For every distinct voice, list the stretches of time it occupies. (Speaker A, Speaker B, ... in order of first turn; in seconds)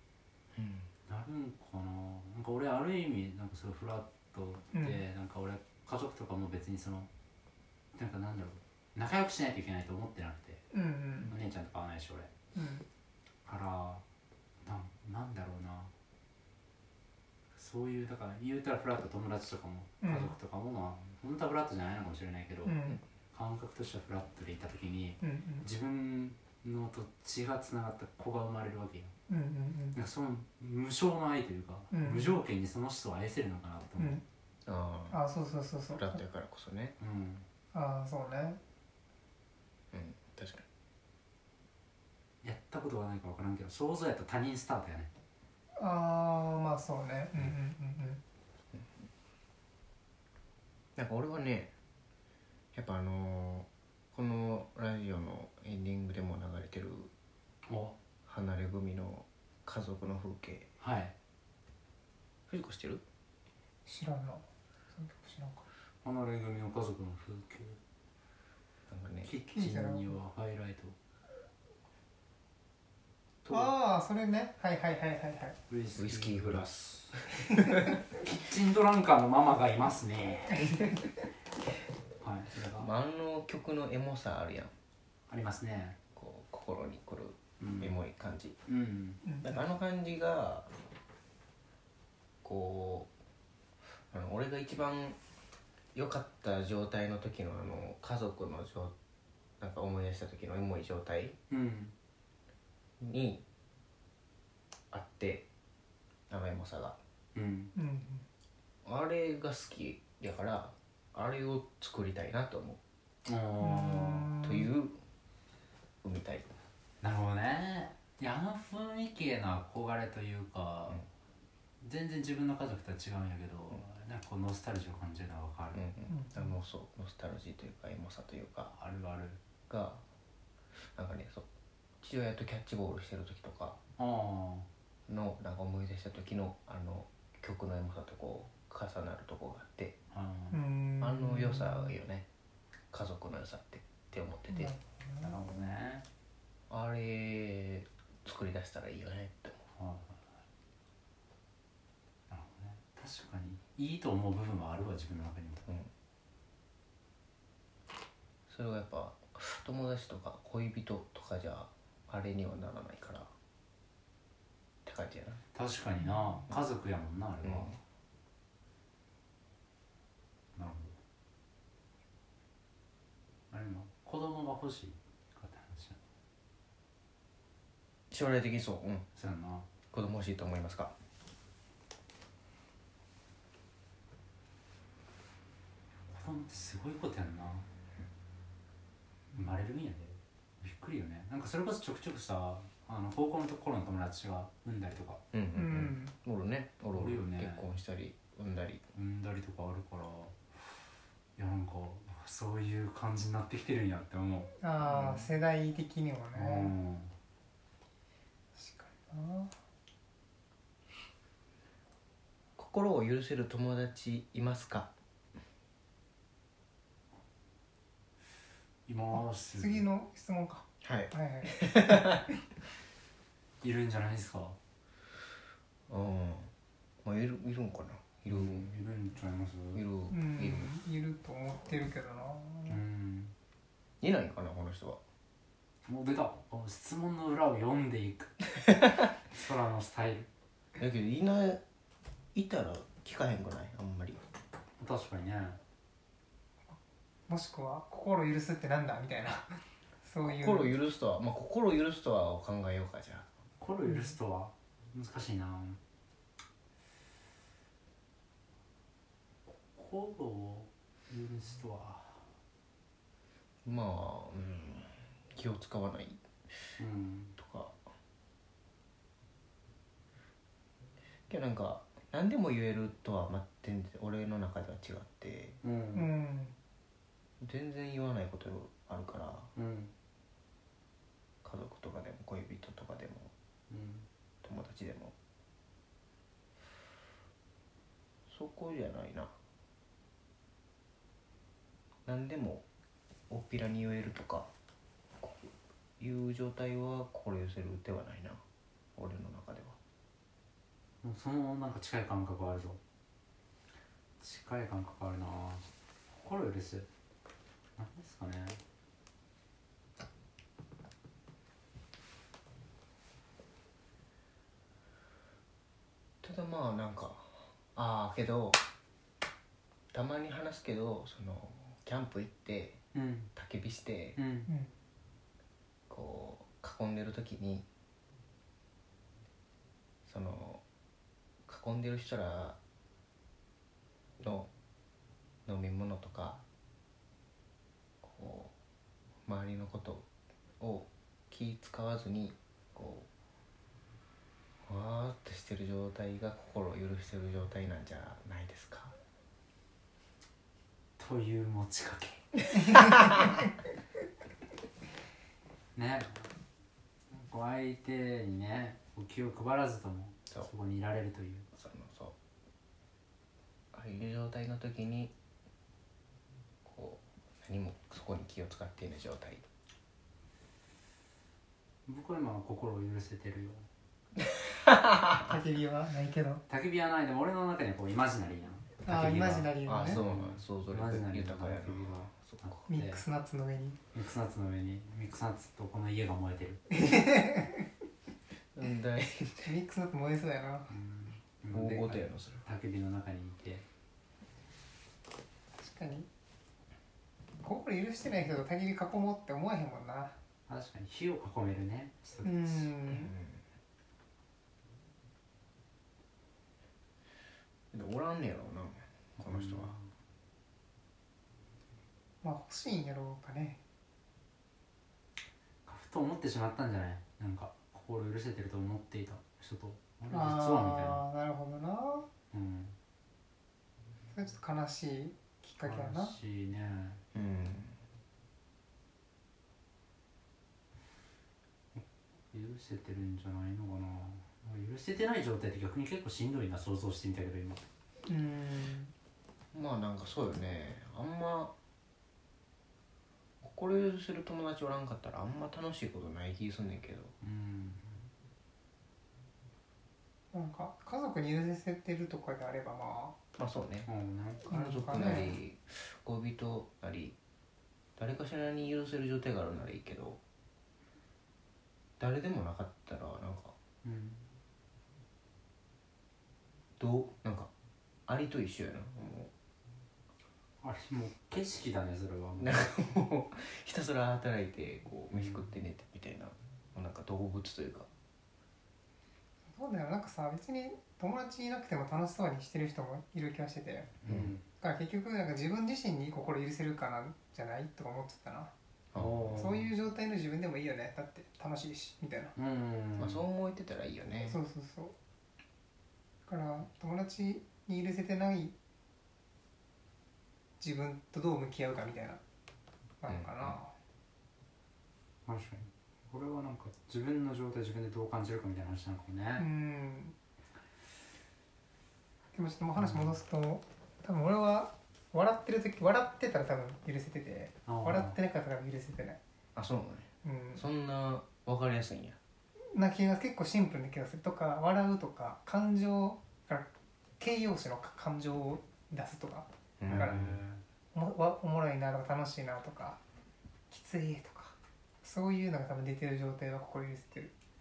Speaker A: 0.6-0.9, 34.7-35.2, 36.0-37.0, 39.9-40.7, 48.7-49.1, 51.0-51.7, 52.7-57.1, 58.3-60.7, 62.5-63.0, 68.9-69.3, 73.4-73.7, 76.0-76.7, 82.8-84.7, 86.2-88.6, 89.4-90.7, 92.4-93.1, 94.1-95.2, 96.0-98.9, 99.6-101.4, 103.0-103.4, 104.9-105.5, 106.3-107.0, 108.8-112.8, 114.4-115.0, 116.0-116.5, 125.7-128.8, 129.7-130.0, 130.8-131.5, 132.0-133.8, 135.1-140.0, 141.0-142.3, 142.9-144.7, 146.7-149.6, 158.5-163.3, 164.8-165.4, 167.4-167.8, 178.1-179.1, 179.9-180.9, 195.3-198.8, 212.6-214.9, 220.8-222.2, 225.9-226.5, 227.0-228.7, 229.7-230.7, 234.0-235.0, 240.8-241.6, 242.3-244.2, 250.2-253.3, 263.6-266.7, 267.4-267.8, 271.3-275.6, 277.4-279.5, 281.4-283.3, 284.4-285.1, 288.3-289.3, 292.1-292.6, 293.3-294.5, 295.2-298.4, 299.0-299.8, 316.2-318.6, 319.9-322.8, 323.4-324.2, 325.9-327.6, 330.1-330.6, 331.5-332.6, 334.2-334.5, 335.5-336.4, 338.0-338.5, 339.2-340.1, 340.6-343.1, 344.6-348.9, 361.5-362.1, 363.7-365.1, 366.6-369.5, 374.5-375.3, 379.6-382.6, 388.5-389.5, 391.5-392.4, 402.9-403.4, 407.7-409.7, 427.1-427.8, 439.5-441.5, 443.4-447.1, 453.4-453.9, 454.4-457.1, 458.0-460.2, 462.0-463.6, 466.8-467.5, 468.1-469.3, 472.4-477.9, 484.1-484.3, 488.9-489.4, 493.0-494.4, 503.1-503.6, 519.5-522.2, 529.8-530.4
Speaker B: 1.1-7.1, 7.9-10.7, 11.2-12.3, 13.5-14.0, 14.6-15.9, 17.6-22.8, 23.3-29.1, 29.9-34.2, 37.0-37.5, 42.4-45.1, 57.7-58.0, 60.8-61.1, 66.0-67.8, 69.2-71.0, 75.7-77.2, 78.1-80.8, 82.2-82.9, 85.3-86.0, 87.6-88.0, 88.7-89.2, 101.5-101.9, 107.3-107.7, 113.2-114.3, 117.0-121.0, 121.8-125.8, 128.8-129.4, 134.0-134.7, 140.1-140.6, 145.2-146.1, 149.8-150.2, 152.3-155.7, 165.5-167.8, 170.6-171.0, 173.5-176.0, 179.2-179.7, 186.1-187.7, 189.3-195.2, 196.9-197.7, 198.9-205.1, 206.3-207.1, 218.9-219.8, 223.6-224.6, 228.3-229.8, 232.7-233.3, 235.9-240.3, 244.8-245.6, 253.6-255.8, 259.8-262.3, 266.8-267.3, 275.6-276.1, 279.6-279.9, 283.7-284.1, 301.0-302.8, 304.2-306.9, 307.8-308.6, 322.9-323.3, 324.2-324.5, 351.0-352.2, 355.8-356.3, 357.1-361.5, 371.9-373.7, 376.5-383.0, 383.9-386.6, 390.7-393.6, 400.5-402.8, 409.2-409.9, 415.7-421.0, 422.3-422.8, 425.6-427.0, 431.7-437.6, 447.2-448.1, 453.9-454.4, 463.8-464.2, 470.6-472.7, 475.2-475.5, 484.0-484.4, 489.0-489.7, 492.4-493.2, 505.2-509.5, 512.8-513.2, 517.7-518.2, 529.9-530.6
Speaker C: 4.7-5.0, 10.7-11.3, 12.6-12.8, 20.0-20.3, 22.6-23.0, 25.2-25.6, 29.3-30.0, 31.9-32.4, 35.1-36.2, 37.7-38.6, 45.8-48.2, 63.9-65.7, 69.5-70.2, 73.5-75.6, 77.5-77.8, 89.2-89.6, 107.8-108.3, 113.6-114.7, 126.1-126.5, 140.5-141.9, 144.5-145.4, 195.6-196.1, 204.6-206.7, 208.6-209.5, 219.1-222.2, 230.1-232.8, 247.3-250.7, 253.9-254.2, 275.9-276.6, 324.5-324.7, 375.2-376.4, 378.9-380.0, 382.7-383.8, 386.7-387.7, 389.4-390.7, 395.6-396.1, 397.4-400.1, 402.2-403.1, 412.2-413.6, 420.1-422.1, 424.1-426.2, 438.0-438.9, 450.3-453.2, 454.4-455.4, 479.5-483.9, 484.6-488.5, 489.4-492.3, 494.2-494.9, 496.3-498.5, 500.6-502.2, 503.0-503.7, 509.4-510.1, 512.3-519.2, 520.2-520.6, 522.7-530.2, 530.9-533.0, 533.7-537.3